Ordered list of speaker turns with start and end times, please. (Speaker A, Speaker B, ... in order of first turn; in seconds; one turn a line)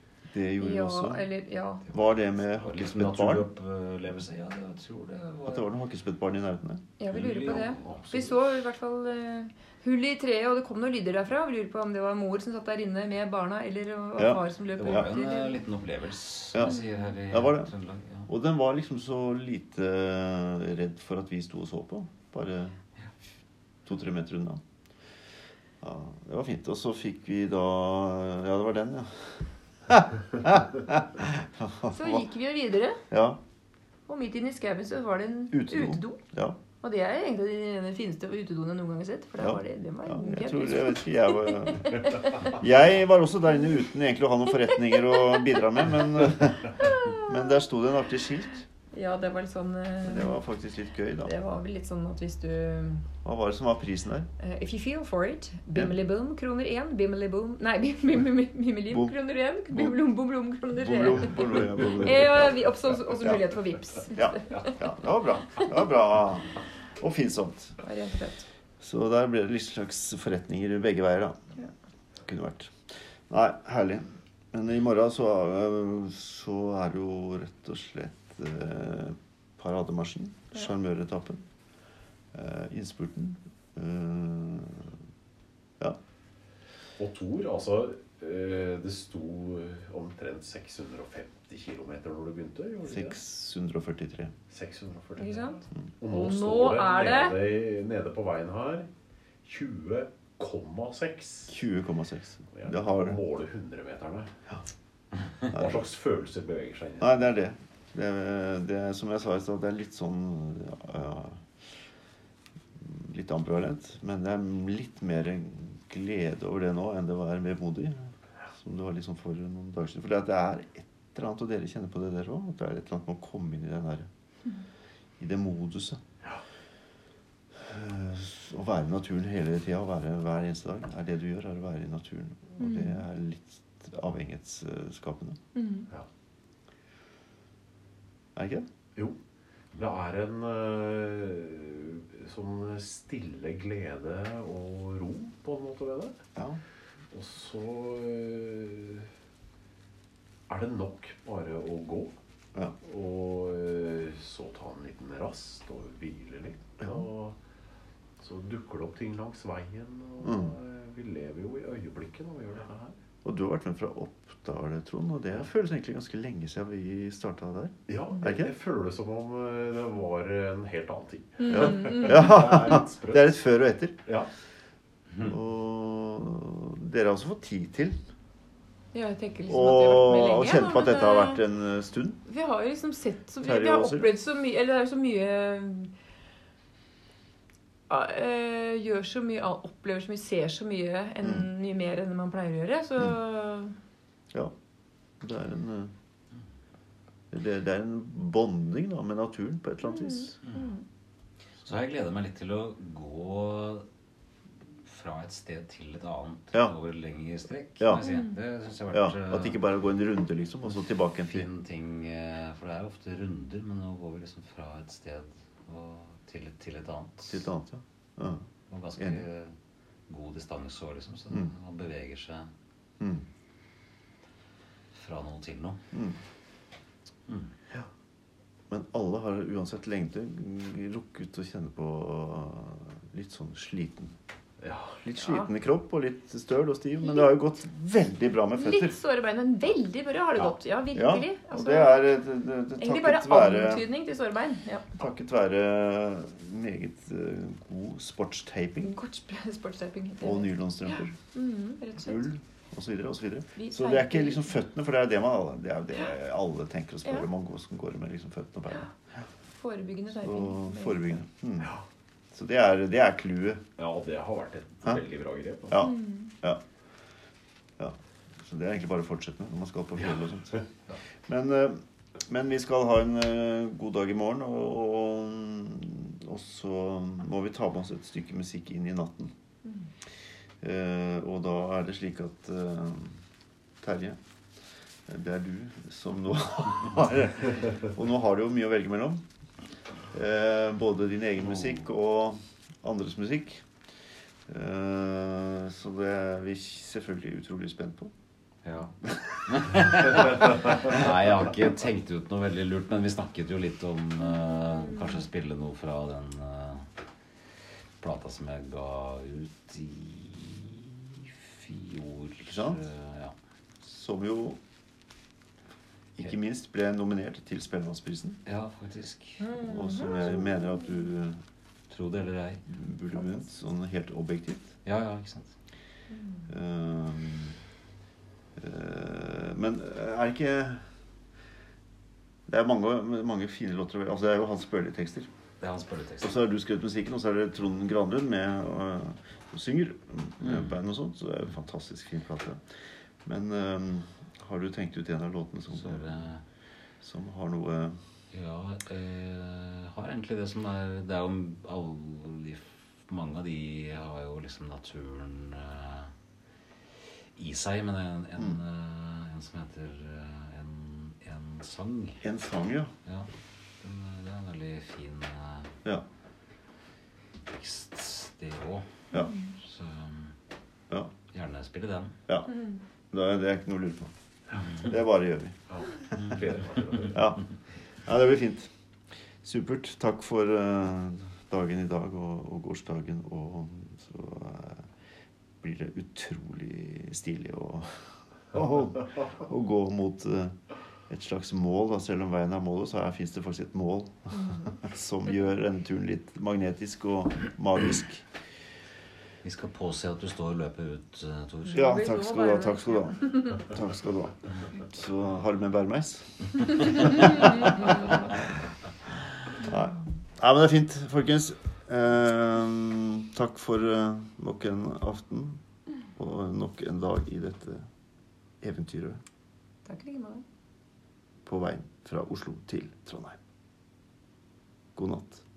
Speaker A: 0.3-1.3
Speaker B: 0.6-1.8
Speaker C: 1.9-5.7
Speaker A: 1.9-3.5
Speaker A: 5.4-6.9
Speaker B: 7.0-15.6
Speaker C: 7.1-8.3
Speaker D: 7.5-8.0
Speaker A: 14.2-15.1
Speaker C: 14.8-18.3
Speaker A: 16.5-17.7
Speaker A: 18.3-22.7
Speaker A: 23.9-24.6
Speaker A: 25.8-32.2
Speaker B: 31.9-33.0
Speaker A: 33.1-33.4
Speaker B: 34.1-36.2
Speaker A: 35.5-36.6
Speaker B: 36.8-42.5
Speaker A: 39.4-48.6
Speaker B: 44.6-45.9
Speaker B: 46.7-47.6
Speaker B: 48.9-50.4
Speaker A: 50.0-51.4
Speaker B: 51.2-53.0
Speaker A: 53.2-54.3
Speaker B: 54.4-64.8
Speaker A: 58.9-59.2
Speaker A: 59.7-60.0
Speaker A: 60.7-63.5
Speaker A: 64.1-67.8
Speaker B: 67.8-68.5
Speaker A: 68.8-71.3
Speaker A: 72.2-72.7
Speaker A: 73.3-81.4
Speaker A: 82.3-84.9
Speaker D: 87.0-93.2
Speaker A: 92.8-94.3
Speaker D: 94.5-98.9
Speaker B: 95.2-97.4
Speaker D: 99.4-101.6
Speaker A: 101.5-103.2
Speaker D: 102.5-104.3
Speaker A: 105.5-105.8
Speaker D: 105.5-107.3
Speaker A: 107.0-111.4
Speaker A: 112.8-124.1
Speaker A: 125.2-126.0
Speaker A: 127.6-135.4
Speaker B: 132.6-133.0
Speaker B: 135.6-135.9
Speaker A: 138.3-138.7
Speaker D: 139.8-146.2
Speaker D: 147.1-149.1
Speaker D: 150.5-152.1
Speaker D: 152.8-157.4
Speaker D: 158.2-163.0
Speaker A: 160.2-160.5
Speaker A: 163.2-168.5
Speaker D: 167.9-173.4
Speaker B: 171.4-172.6
Speaker A: 171.5-174.0
Speaker A: 175.2-177.9
Speaker B: 178.9-181.4
Speaker A: 179.5-182.2
Speaker B: 182.3-185.9
Speaker A: 183.4-184.1
Speaker B: 187.9-193.7
Speaker A: 191.2-191.5
Speaker A: 195.2-195.9
Speaker A: 197.3-200.3
Speaker B: 199.9-200.8
Speaker C: 200.4-200.7
Speaker C: 201.6-203.8
Speaker C: 204.8-209.6
Speaker A: 207.8-208.0
Speaker B: 208.0-208.3
Speaker A: 208.9-211.5
Speaker C: 211.2-217.4
Speaker A: 217.3-218.4
Speaker C: 218.7-219.5
Speaker A: 219.0-219.2
Speaker C: 220.1-222.5
Speaker A: 223.0-223.2
Speaker C: 224.9-225.8
Speaker A: 225.9-226.2
Speaker A: 228.7-234.1
Speaker D: 234.6-235.0
Speaker A: 235.0-239.0
Speaker B: 235.2-235.5
Speaker B: 238.6-242.1
Speaker A: 240.9-243.8
Speaker B: 242.8-245.0
Speaker A: 245.0-248.9
Speaker B: 248.8-252.2
Speaker A: 250.2-251.2
Speaker A: 252.0-259.2
Speaker B: 253.6-254.5
Speaker B: 259.6-261.0
Speaker A: 260.1-261.8
Speaker A: 262.3-263.6
Speaker D: 263.8-265.8
Speaker A: 265.7-266.6
Speaker B: 265.7-266.3
Speaker A: 267.8-270.7
Speaker A: 271.3-279.3
Speaker A: 280.6-283.2
Speaker A: 283.8-284.2
Speaker A: 285.1-289.2
Speaker A: 290.1-293.6
Speaker A: 294.5-298.1
Speaker C: 298.6-298.9
Speaker C: 299.4-306.9
Speaker C: 308.0-313.3
Speaker A: 312.4-312.8
Speaker A: 313.8-314.6
Speaker A: 316.2-318.4
Speaker C: 318.4-319.5
Speaker B: 319.4-320.4
Speaker A: 319.6-321.4
Speaker C: 321.9-322.6
Speaker A: 322.7-324.7
Speaker C: 324.8-325.5
Speaker B: 326.1-326.5
Speaker A: 326.5-327.6
Speaker A: 328.6-330.8
Speaker A: 332.5-335.3
Speaker C: 335.6-336.4
Speaker A: 336.2-342.6
Speaker C: 340.4-340.7
Speaker A: 343.2-346.2
Speaker C: 345.7-346.4
Speaker A: 347.0-348.0
Speaker C: 348.3-356.1
Speaker C: 357.4-362.2
Speaker A: 362.2-362.9
Speaker C: 363.0-363.3
Speaker C: 363.8-365.7
Speaker C: 367.5-368.9
Speaker B: 369.1-369.5
Speaker C: 369.5-370.3
Speaker C: 371.3-372.1
Speaker A: 372.3-372.5
Speaker A: 373.1-375.6
Speaker D: 375.7-377.2
Speaker A: 377.1-377.4
Speaker A: 378.0-378.7
Speaker A: 379.4-384.9
Speaker A: 385.6-387.9
Speaker A: 388.5-390.6
Speaker A: 391.1-398.3
Speaker B: 394.3-394.7
Speaker C: 399.4-402.0
Speaker B: 401.6-403.6
Speaker A: 401.7-408.4
Speaker B: 407.3-408.1
Speaker A: 409.6-415.6
Speaker A: 416.1-417.8
Speaker A: 418.6-419.2
Speaker B: 419.9-420.4
Speaker A: 421.4-423.4
Speaker A: 424.9-425.4